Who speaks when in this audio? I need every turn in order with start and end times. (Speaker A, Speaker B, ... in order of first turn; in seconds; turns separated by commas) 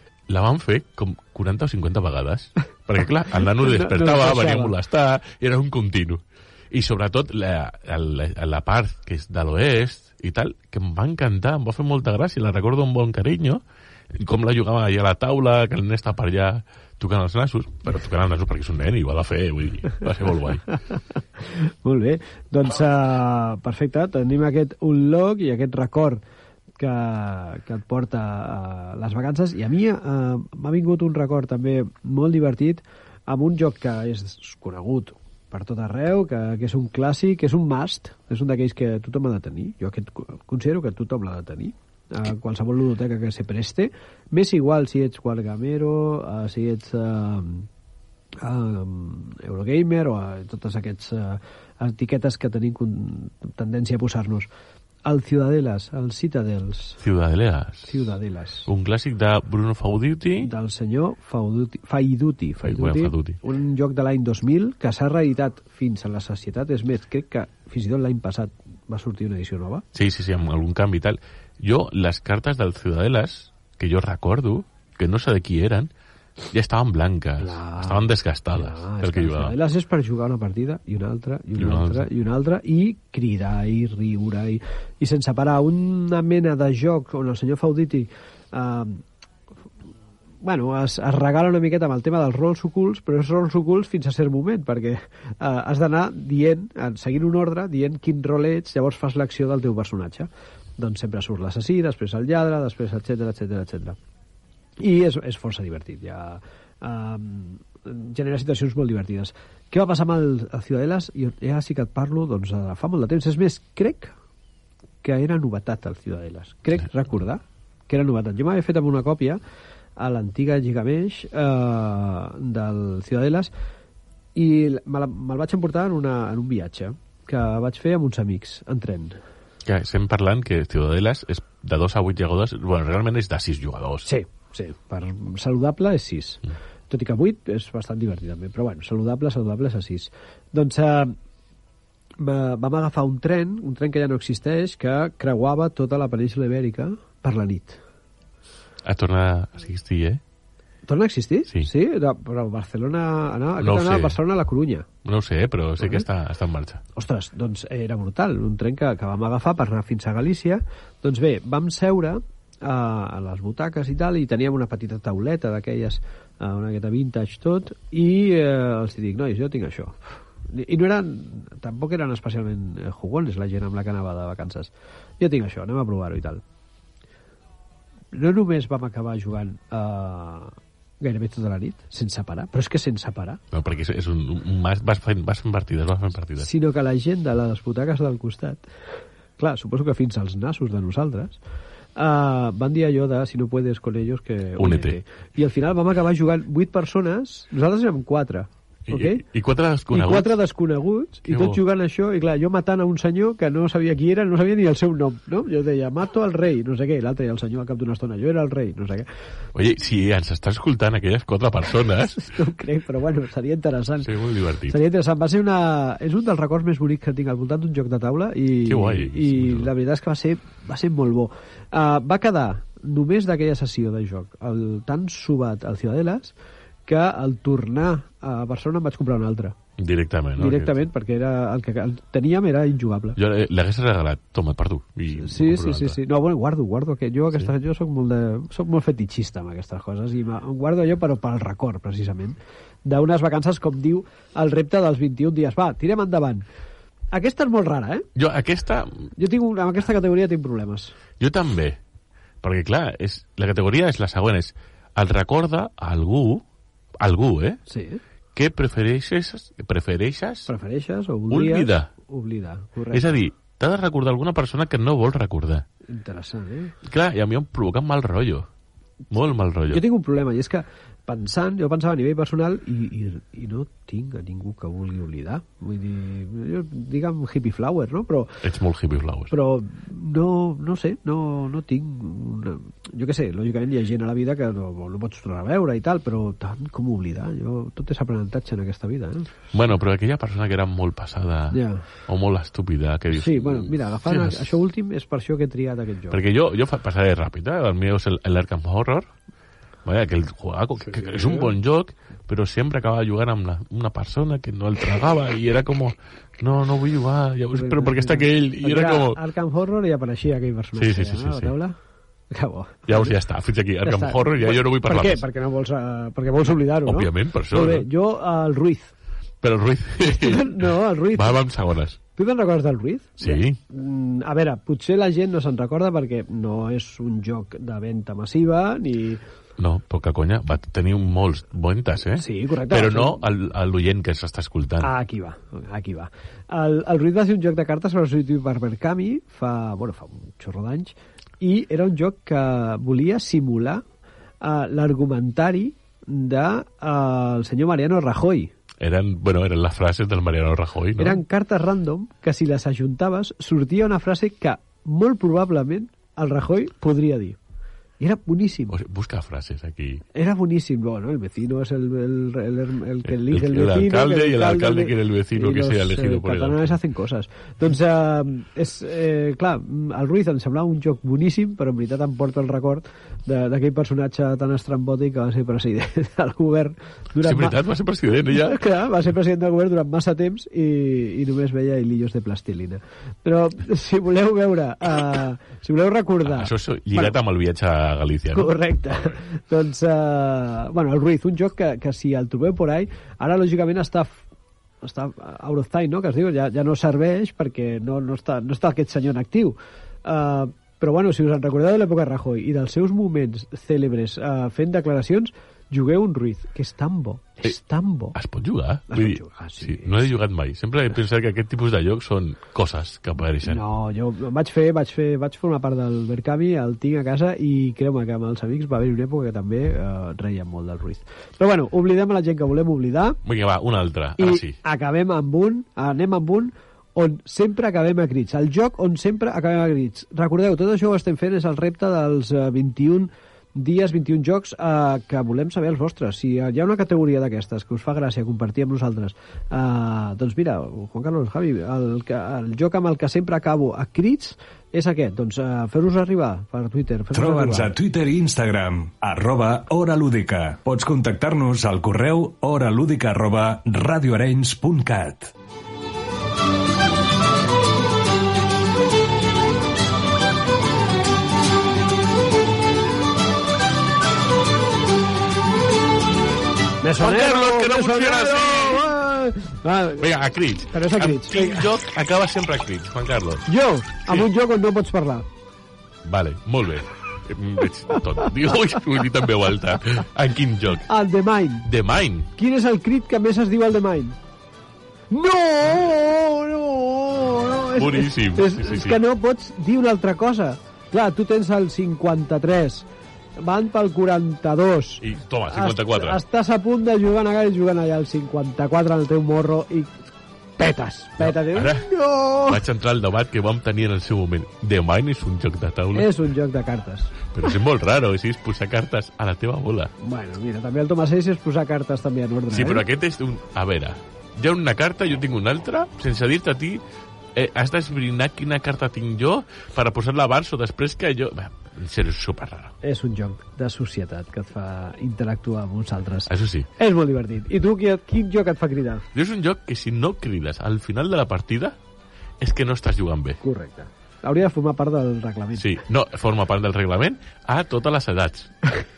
Speaker A: 0.3-13.6, Speaker B: 3.4-4.7, Speaker A: 14.1-20.6, Speaker B: 20.9-26.2, Speaker B: 26.8-47.7, Speaker B: 48.4-54.5, Speaker B: 55.0-57.0, Speaker A: 57.0-57.9, Speaker B: 57.9-58.7, Speaker A: 58.6-60.5, Speaker B: 60.4-69.8, Speaker A: 62.6-63.4, Speaker A: 69.9-75.9, Speaker A: 76.5-79.5, Speaker B: 77.4-89.0, Speaker A: 81.6-82.1, Speaker B: 90.4-104.0, Speaker B: 104.8-114.1, Speaker B: 115.0-119.4, Speaker B: 120.0-123.5, Speaker B: 124.3-129.2, Speaker A: 129.6-134.1, Speaker B: 134.1-141.2, Speaker B: 142.2-147.8, Speaker A: 148.8-150.2, Speaker B: 150.8-154.9, Speaker A: 153.6-154.2, Speaker A: 155.0-156.8, Speaker B: 155.8-156.0, Speaker B: 156.9-176.4, Speaker B: 178.1-183.4, Speaker A: 183.5-186.5, Speaker B: 186.4-188.6, Speaker B: 189.4-191.4, Speaker B: 191.9-199.2, Speaker A: 194.6-195.0, Speaker A: 198.9-200.3, Speaker B: 199.9-209.1, Speaker A: 201.2-201.6, Speaker A: 209.5-212.3, Speaker B: 212.1-214.1, Speaker A: 214.0-214.8, Speaker B: 214.7-226.3, Speaker A: 218.6-219.7, Speaker B: 226.8-229.6, Speaker A: 229.8-230.8, Speaker B: 230.4-233.2, Speaker A: 233.2-236.0, Speaker B: 235.1-246.4, Speaker B: 247.1-248.1, Speaker A: 248.2-249.1, Speaker B: 249.2-250.9, Speaker A: 251.2-251.8, Speaker A: 252.4-256.4, Speaker A: 257.0-257.6, Speaker B: 257.7-258.0, Speaker A: 258.3-260.5, Speaker B: 260.5-263.2, Speaker A: 261.3-261.9, Speaker A: 262.9-265.6, Speaker B: 265.9-266.8, Speaker A: 266.8-268.5, Speaker A: 269.1-269.8, Speaker B: 269.7-278.4, Speaker A: 278.4-279.3, Speaker B: 279.3-289.3, Speaker A: 289.5-294.5, Speaker B: 291.5-291.9, Speaker B: 293.1-296.2, Speaker A: 296.1-299.1, Speaker A: 299.8-309.2, Speaker B: 300.9-301.5, Speaker B: 307.5-311.8, Speaker A: 310.8-311.5, Speaker B: 312.3-313.1, Speaker A: 312.9-315.2, Speaker B: 313.8-318.9, Speaker A: 316.8-317.9, Speaker A: 319.4-322.0, Speaker B: 320.0-321.4, Speaker B: 322.1-329.2, Speaker A: 323.2-323.6, Speaker A: 329.6-334.9, Speaker B: 332.1-333.2, Speaker B: 334.8-343.8, Speaker B: 344.4-348.5, Speaker A: 348.8-351.2, Speaker B: 350.9-357.4, Speaker B: 358.0-358.8, Speaker A: 358.7-360.0, Speaker B: 360.1-387.1, Speaker A: 363.0-366.8, Speaker A: 377.2-378.6, Speaker A: 386.2-388.5, Speaker B: 388.3-394.2, Speaker B: 394.8-408.2, Speaker A: 408.1-413.6, Speaker B: 408.9-410.1, Speaker B: 413.4-423.2, Speaker A: 423.2-424.6, Speaker B: 424.2-447.7, Speaker C: 447.1-455.3, Speaker B: 466.8-470.1, Speaker A: 467.0-468.9, Speaker A: 470.0-473.4, Speaker B: 470.7-471.7, Speaker B: 473.5-475.2, Speaker A: 476.0-480.9, Speaker B: 480.9-481.7, Speaker A: 481.6-482.3, Speaker B: 482.4-484.2, Speaker B: 485.1-492.9, Speaker A: 487.8-489.0, Speaker B: 493.4-499.9, Speaker A: 495.0-496.2, Speaker B: 500.6-502.6, Speaker A: 501.2-501.9, Speaker A: 502.4-506.1, Speaker B: 505.9-507.1, Speaker A: 507.3-509.9, Speaker B: 510.0-512.9, Speaker A: 512.5-516.8, Speaker A: 517.3-522.7, Speaker B: 522.8-529.0, Speaker A: 526.3-526.7, Speaker A: 529.1-531.8, Speaker A: 532.4-533.4, Speaker B: 533.4-535.8, Speaker A: 535.5-538.7